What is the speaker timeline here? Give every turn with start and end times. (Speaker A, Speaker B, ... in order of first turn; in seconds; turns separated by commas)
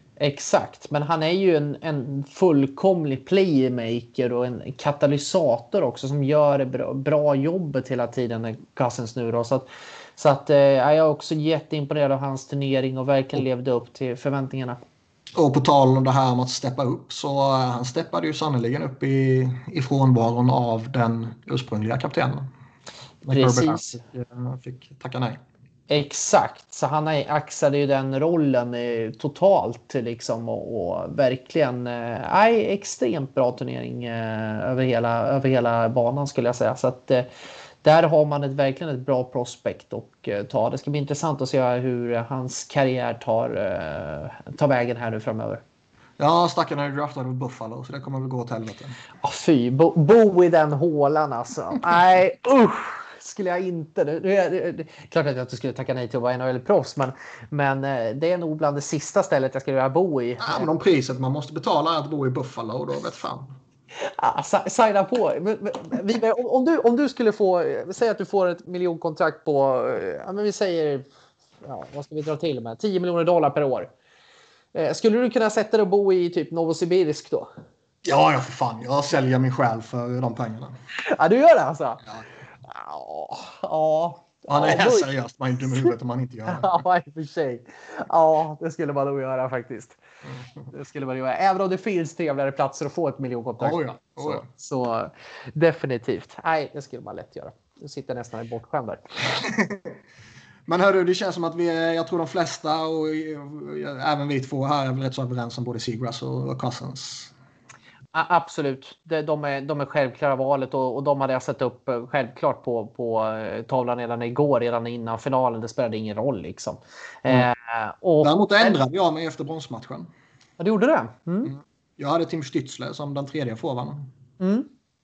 Speaker A: 0.2-14.8, Speaker B: 15.3-22.5, Speaker B: 23.2-25.4, Speaker A: 23.3-23.9, Speaker A: 25.9-37.3, Speaker A: 37.8-45.6, Speaker B: 46.2-49.0, Speaker A: 49.2-60.7, Speaker B: 60.4-63.5, Speaker A: 64.0-71.0, Speaker A: 71.6-73.9, Speaker A: 74.7-77.5, Speaker B: 78.0-80.7, Speaker A: 81.0-82.0, Speaker A: 82.6-85.1, Speaker B: 84.5-86.8, Speaker A: 86.5-90.0, Speaker A: 90.7-99.0, Speaker B: 93.6-94.5, Speaker B: 99.4-99.9, Speaker B: 100.7-107.3, Speaker A: 108.1-118.8, Speaker B: 118.2-120.1, Speaker A: 120.6-121.5, Speaker B: 121.5-124.1, Speaker A: 124.4-124.7